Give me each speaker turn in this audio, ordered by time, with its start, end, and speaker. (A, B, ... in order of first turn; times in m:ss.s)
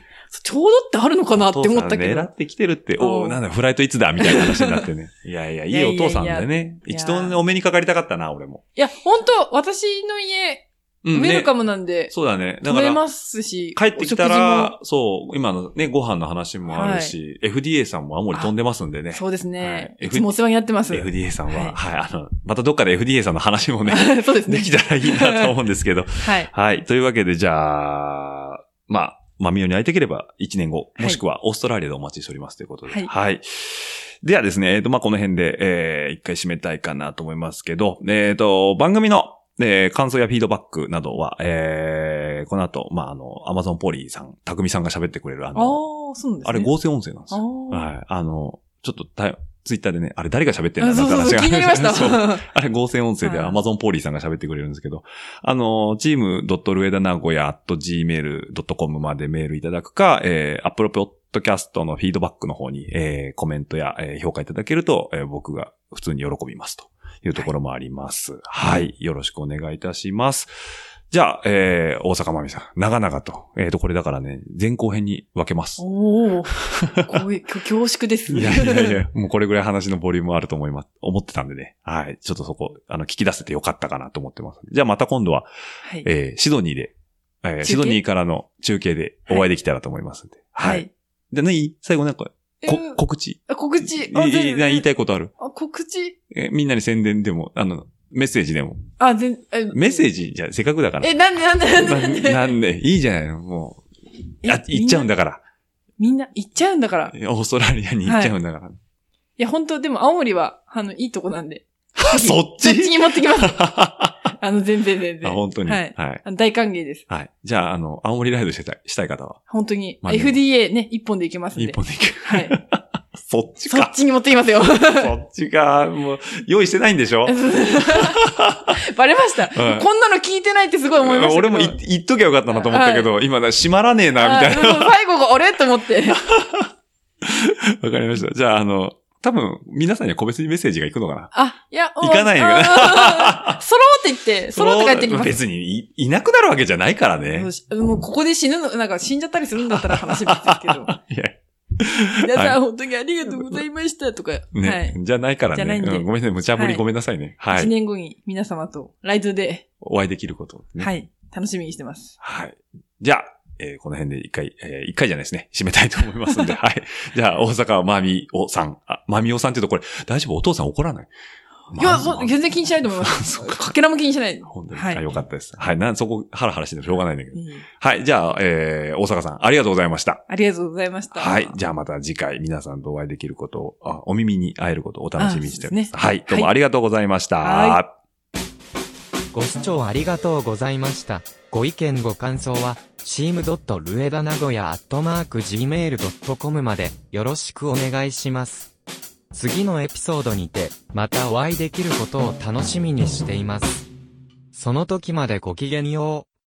0:00.3-0:02.3 A
0:01.4-0:08.6 B
0:03.0-0:03.4 A
0:04.2-0:04.9 A
0:05.7-0:07.4 A
0:08.8-0:12.1 A
0:11.0-0:11.5 B
0:12.1-0:13.0 B
0:12.6-0:14.8 A
0:13.8-0:20.3 B
0:16.7-0:17.2 A
0:19.1-0:21.8 A
0:20.9-0:45.8 B
0:23.9-0:25.6 A
0:26.2-0:26.5 A
0:32.9-0:33.1 A
0:45.6-0:46.7 A
0:46.4-1:10.5 B
0:47.3-0:47.9 A
0:50.8-0:52.5 A
0:53.2-0:53.6 A
1:11.1-1:15.8 B
1:15.8-1:19.0 A
1:16.6-1:17.2 B
1:18.3-1:25.5 B
1:26.0-1:35.3 B
1:27.6-1:28.0 A
1:30.6-1:30.9 A
1:32.6-1:34.9 A
1:35.4-1:36.2 A
1:36.3-1:38.9 B
1:39.0-1:40.0 A
1:39.7-1:41.2 B
1:41.0-1:42.5 A
1:41.7-1:43.9 B
1:44.4-1:45.1 A
1:44.4-1:45.4 B
1:46.0-1:47.1 A
1:47.1-1:48.8 B
1:48.0-1:48.3 A
1:49.4-1:53.7 A
1:52.0-1:54.2 B
1:54.4-1:57.1 A
1:55.2-1:56.2 B
1:57.1-1:59.4 B
1:59.5-2:02.6 A
2:00.0-2:00.4 B
2:01.6-2:03.9 B
2:03.6-2:05.2 A
2:04.8-2:08.8 B
2:07.2-2:11.8 A
2:09.5-2:09.9 B
2:11.0-2:15.0 B
2:12.5-2:13.1 A
2:14.2-2:16.2 A
2:16.2-2:16.7 B
2:17.2-2:21.3 B
2:21.3-2:25.4 A
2:22.0-2:23.6 B
2:24.5-2:27.5 B
2:27.3-2:30.9 A
2:29.6-2:32.6 B
2:32.2-2:35.0 A
2:33.2-2:33.6 B
2:34.5-2:37.7 B
2:35.5-2:36.8 A
2:37.5-2:39.6 A
2:39.8-2:40.9 B
2:40.8-2:42.2 A
2:42.2-2:51.1 B
2:51.7-2:53.7 B
2:51.7-2:55.0 A
2:54.5-3:00.2 B
2:57.3-2:57.6 A
3:00.3-3:01.6 A
3:01.1-3:07.9 B
3:05.2-3:06.5 A
3:07.4-3:07.8 A
3:09.3-3:18.7 C
3:19.3-3:23.9 C
3:24.5-3:26.3 C